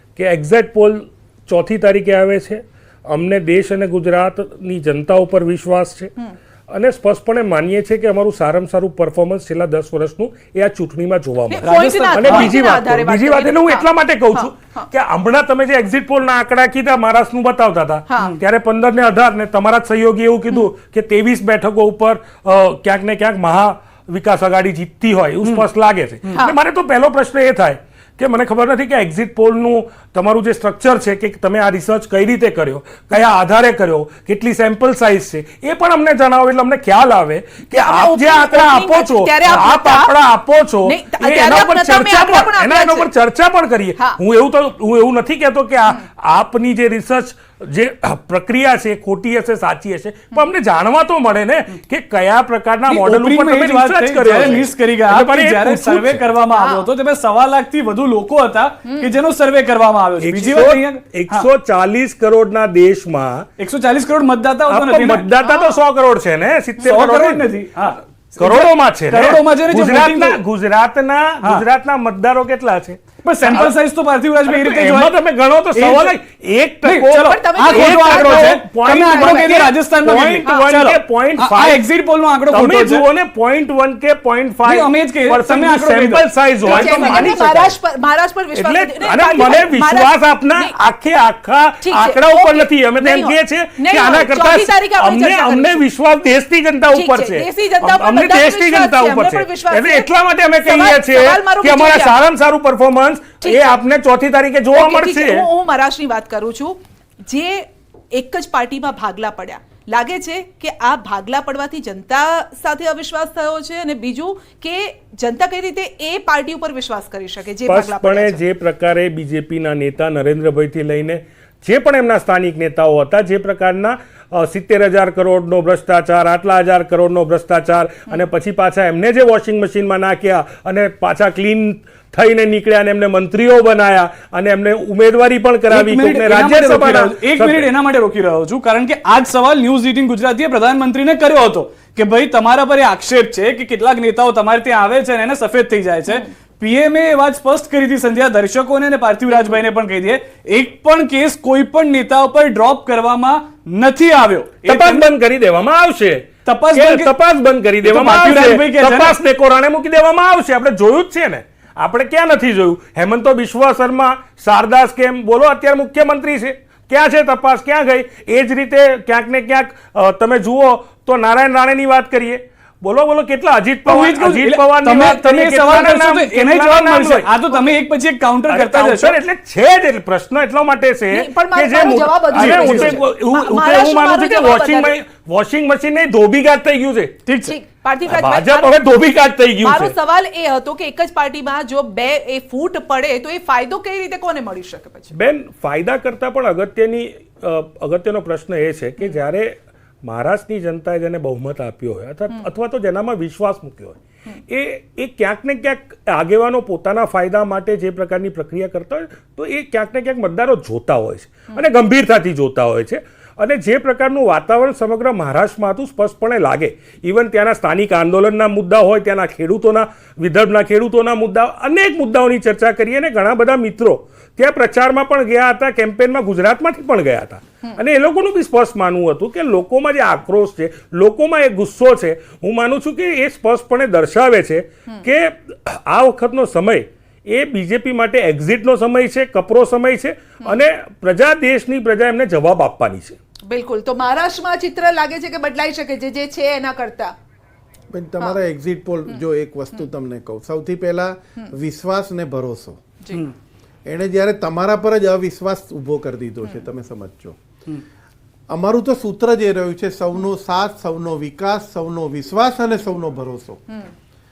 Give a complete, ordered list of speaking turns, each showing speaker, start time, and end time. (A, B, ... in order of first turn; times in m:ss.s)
0:00.2-0:06.1 A
0:06.7-0:56.2 A
0:11.5-0:14.9 B
0:11.6-0:12.5 C
0:18.1-0:18.4 B
0:37.7-0:40.2 B
0:40.8-0:43.1 B
0:52.9-1:01.5 C
0:56.6-0:56.9 B
1:00.2-1:03.5 A
1:03.6-1:05.3 C
1:04.7-1:13.7 A
1:05.4-1:05.8 B
1:06.8-1:10.4 C
1:13.2-1:15.1 C
1:14.5-1:21.8 A
1:15.7-1:16.2 C
1:16.8-1:23.0 C
1:17.2-1:19.6 B
1:22.5-1:27.7 A
1:24.6-1:27.3 C
1:26.6-1:30.7 B
1:28.5-1:45.4 A
1:31.8-1:35.8 B
1:36.9-1:40.1 B
1:40.6-1:42.2 B
1:44.7-1:58.4 B
1:57.6-2:17.7 A
2:15.7-2:35.1 C
2:34.6-2:57.4 A
2:36.4-2:37.1 C
2:37.8-2:39.1 C
2:53.8-2:59.2 C
2:58.5-3:07.2 A
3:01.1-3:04.9 B
3:02.4-3:03.0 C
3:07.2-3:07.6 C
3:07.4-3:08.8 B
3:08.1-3:09.9 A
3:09.6-3:15.1 B
3:15.1-4:03.2 A
4:03.5-4:07.1 B
4:07.9-4:12.8 D
4:13.8-4:17.4 D
4:18.5-4:23.6 D